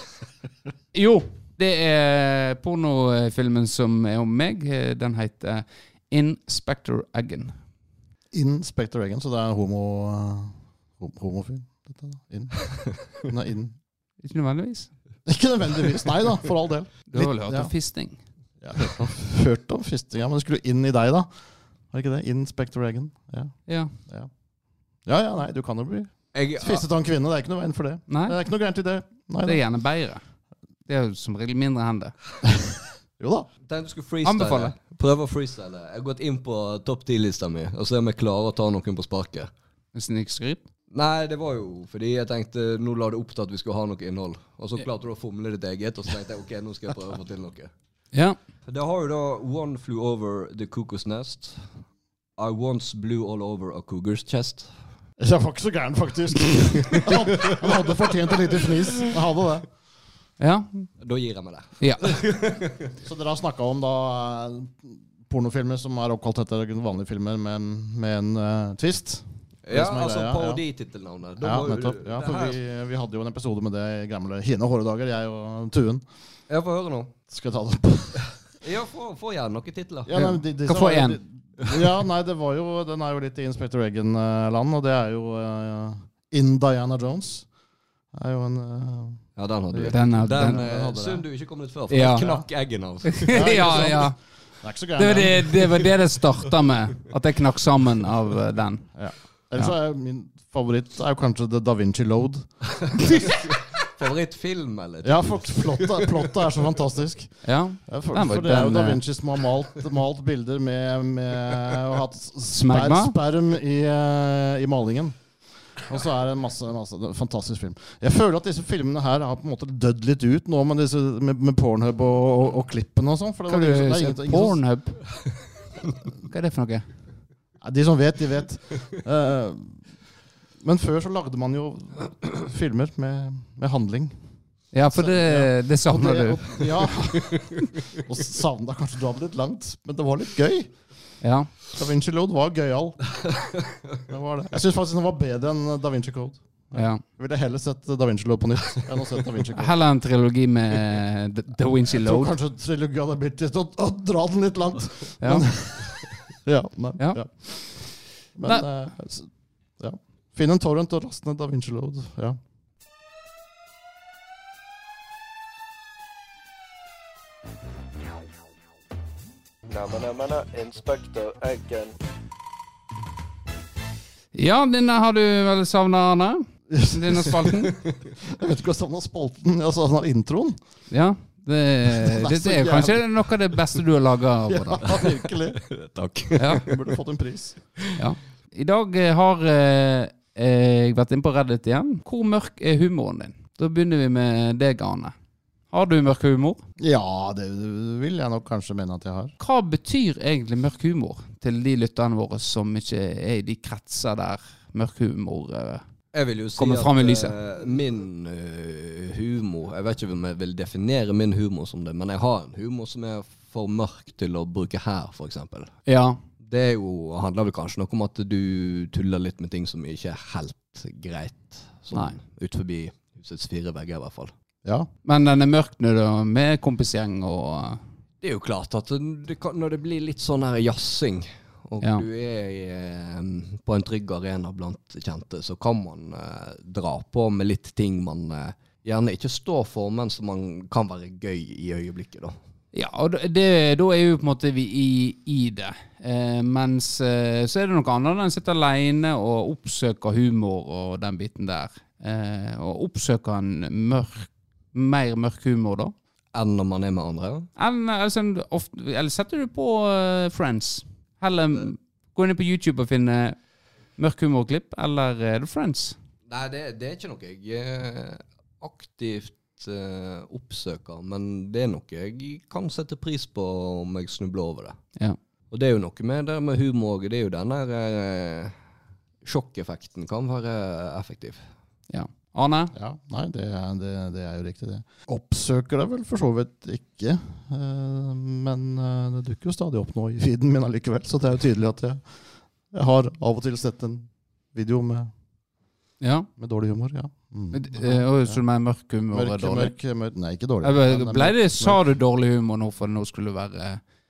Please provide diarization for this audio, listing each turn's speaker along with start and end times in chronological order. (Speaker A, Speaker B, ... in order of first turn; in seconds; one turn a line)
Speaker A: 0.9-7.6
Speaker B: 8.3-13.8
Speaker A: 14.2-14.9
Speaker B: 15.3-17.7
Speaker A: 17.1-18.2
Speaker B: 18.6-21.3
Speaker B: 21.9-24.3
Speaker A: 23.7-23.9
Speaker B: 25.1-29.6
Speaker C: 26.3-26.9
Speaker A: 28.1-28.4
Speaker A: 29.4-30.2
Speaker A: 30.9-32.1
Speaker B: 33.2-33.5
Speaker C: 33.6-39.5
Speaker A: 34.2-34.7
Speaker A: 39.9-40.6
Speaker C: 40.9-47.7
Speaker C: 48.7-51.6
Speaker C: 52.4-54.7
Speaker B: 55.2-59.7
Speaker C: 56.9-57.5
Speaker A: 60.4-60.9
Speaker C: 61.0-62.9
Speaker A: 61.8-62.1
Speaker B: 63.0-70.6
Speaker C: 69.7-72.6
Speaker B: 71.4-76.0
Speaker C: 76.5-77.1
Speaker B: 77.3-78.2
Speaker C: 78.6-80.1
Speaker B: 80.1-87.5
Speaker A: 80.1-81.2
Speaker B: 88.1-91.2
Speaker C: 89.4-94.0
Speaker A: 89.9-90.6
Speaker A: 91.9-92.3
Speaker B: 92.2-92.5
Speaker A: 93.1-94.2
Speaker B: 93.3-95.8
Speaker A: 95.0-98.9
Speaker B: 99.0-102.5
Speaker C: 102.9-106.3
Speaker B: 105.0-115.2
Speaker A: 107.4-109.0
Speaker A: 112.5-113.1
Speaker B: 115.8-124.6
Speaker A: 123.5-125.1
Speaker A: 126.3-126.8
Speaker B: 127.6-129.8
Speaker B: 130.6-134.2
Speaker A: 134.7-136.8
Speaker B: 134.9-140.7
Speaker A: 141.2-141.5
Speaker B: 141.7-143.2
Speaker B: 144.1-149.8
Speaker A: 146.7-147.0
Speaker A: 149.6-152.4
Speaker B: 151.9-162.4
Speaker A: 155.2-155.5
Speaker D: 169.7-171.8
Speaker A: 174.3-177.8
Speaker B: 176.7-177.6
Speaker B: 178.2-180.6
Speaker A: 180.9-184.9
Speaker B: 181.9-183.1
Speaker B: 184.5-185.6
Speaker C: 185.7-186.8
Speaker A: 186.4-186.6
Speaker B: 186.6-187.6
Speaker A: 188.0-195.1
Speaker A: 195.7-196.6
Speaker B: 196.8-199.3
Speaker A: 199.4-205.8
Speaker C: 206.1-215.8
Speaker A: 206.6-207.3
Speaker A: 215.9-216.2
Speaker C: 216.4-224.3
Speaker B: 224.6-224.9
Speaker A: 225.1-227.8
Speaker C: 228.2-242.4
Speaker A: 242.7-255.9
Speaker C: 256.3-257.5
Speaker A: 257.6-263.4
Speaker A: 264.0-266.0
Speaker C: 266.3-274.8
Speaker C: 275.5-278.6
Speaker C: 279.2-281.4
Speaker A: 281.9-282.7
Speaker B: 282.7-292.1
Speaker B: 292.7-295.1
Speaker A: 296.0-296.3
Speaker B: 296.4-298.4
Speaker A: 297.5-299.7
Speaker B: 299.1-301.8
Speaker A: 300.6-303.8